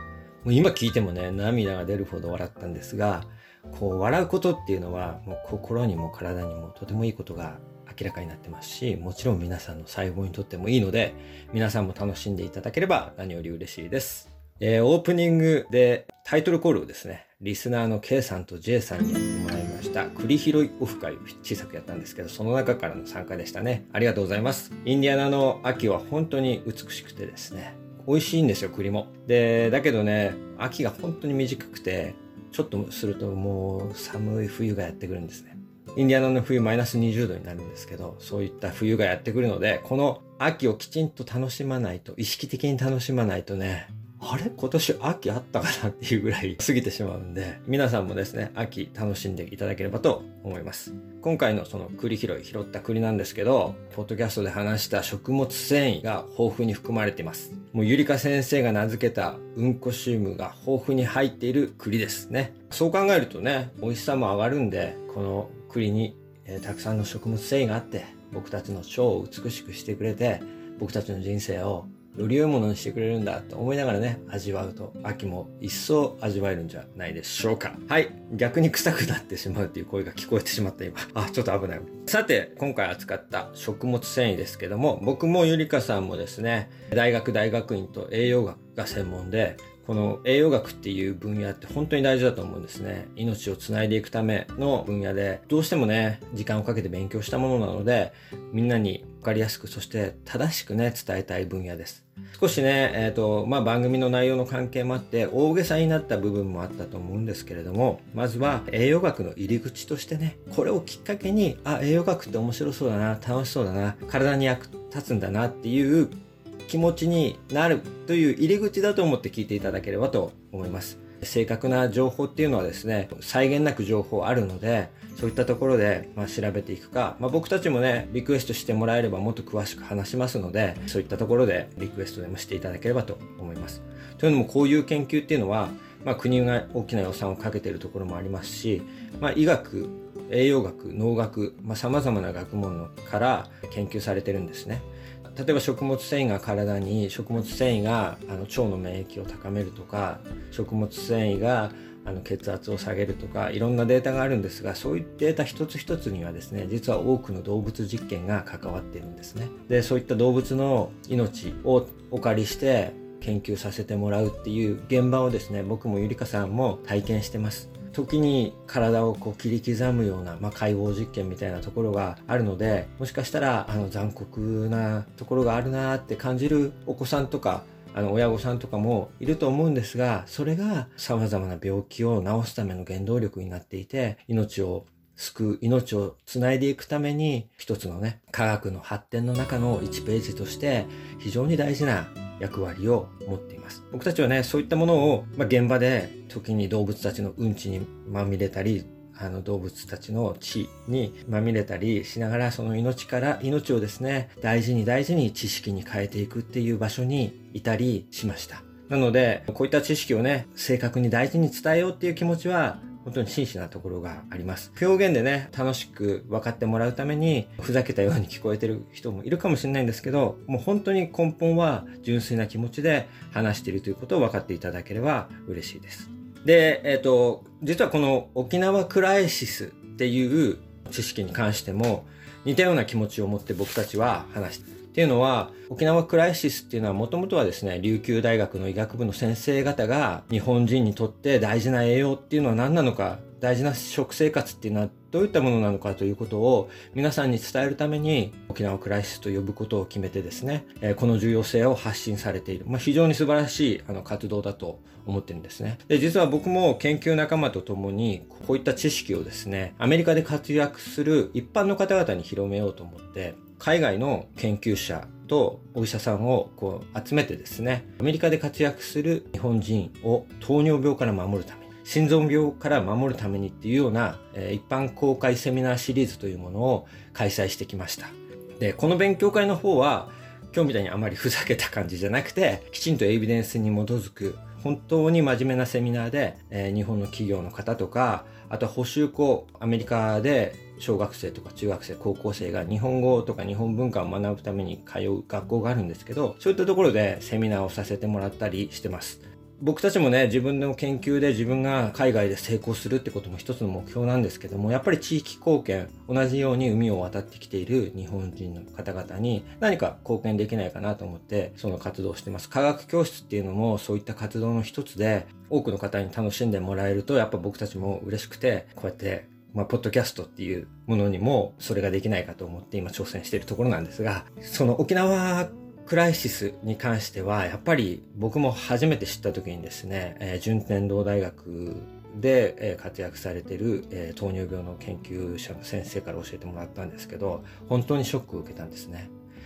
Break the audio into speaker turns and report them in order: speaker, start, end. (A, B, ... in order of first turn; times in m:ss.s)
0:00.4-5:39.1 A